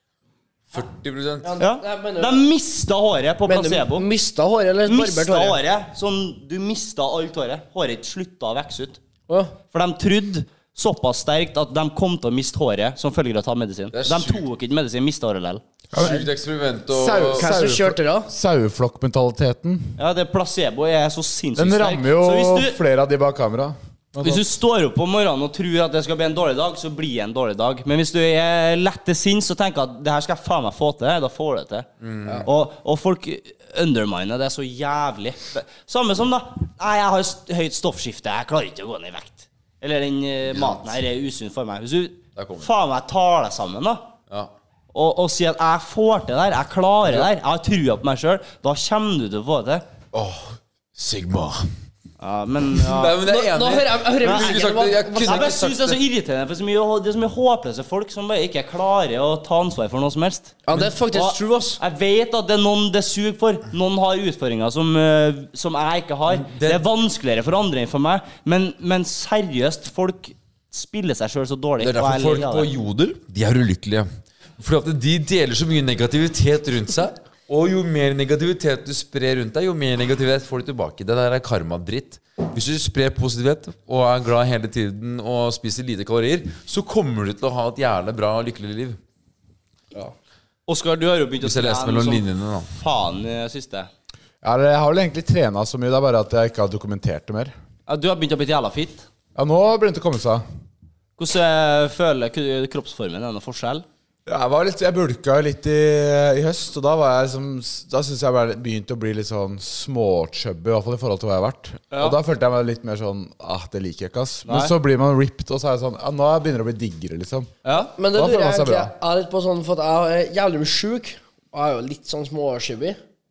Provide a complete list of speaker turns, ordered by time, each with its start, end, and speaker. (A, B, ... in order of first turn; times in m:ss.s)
0:00.7-0:01.6 A
0:01.4-0:02.4 B
0:01.6-0:04.1 C
0:03.5-0:05.6 B
0:04.9-0:09.0 C
0:09.3-0:09.6 B
0:09.7-0:15.6 C
0:13.9-0:14.4 A
0:15.9-0:16.3 D
0:16.0-0:17.5 A
0:16.9-0:20.0 D
0:17.0-0:18.3 B
0:20.0-0:22.8 C
0:21.6-0:24.4 D
0:24.2-0:31.9 C
0:32.0-0:32.5 A
0:32.4-0:44.1 C
0:40.5-0:41.0 A
0:42.4-0:42.7 A
0:44.9-0:49.8 C
0:50.1-0:51.7 A
0:52.2-0:53.2 C
0:52.8-0:56.0 A
0:53.2-0:55.6 B
0:54.2-0:54.6 C
0:55.2-1:00.6 C
1:00.7-1:01.8 B
1:01.1-1:12.7 C
1:06.3-1:06.8 A
1:11.8-1:14.1 A
1:14.6-1:29.0 A
1:30.7-1:33.9 C
1:31.4-1:32.7 A
1:34.4-1:37.5 D
1:37.9-1:39.1 C
1:39.4-1:40.4 D
1:41.2-1:43.9 C
1:44.3-1:57.5 D
1:51.9-1:52.2 C
1:54.5-1:54.7 C
1:57.6-1:57.9 C
1:58.0-2:03.0 B
1:58.1-1:58.9 D